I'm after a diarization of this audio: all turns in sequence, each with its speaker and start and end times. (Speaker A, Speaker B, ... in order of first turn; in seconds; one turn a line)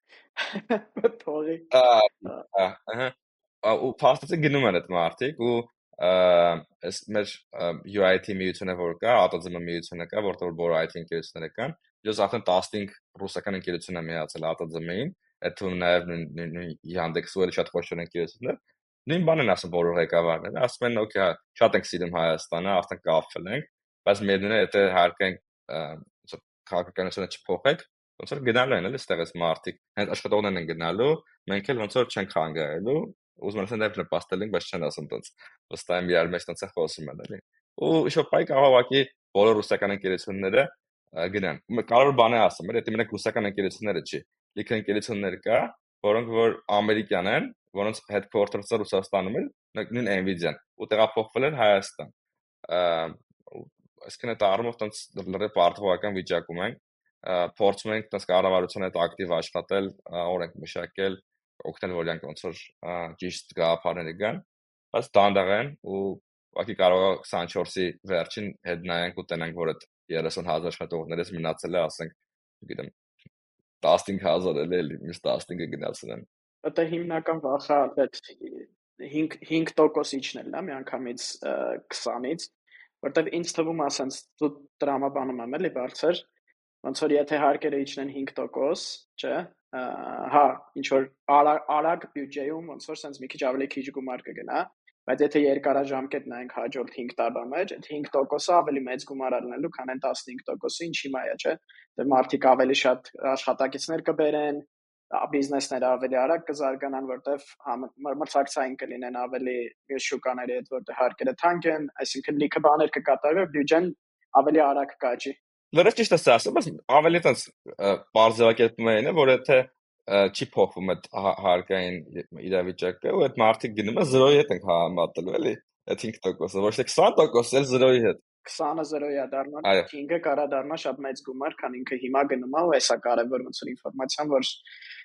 Speaker A: 0.4-1.7
Speaker B: 1.7-52.1
Speaker B: 52.7-72.9
Speaker B: 73.8-76.2
Speaker A: 76.6-86.2
Speaker A: 86.8-115.4
Speaker B: 115.7-128.2
Speaker A: 128.4-134.6
Speaker B: 129.6-129.9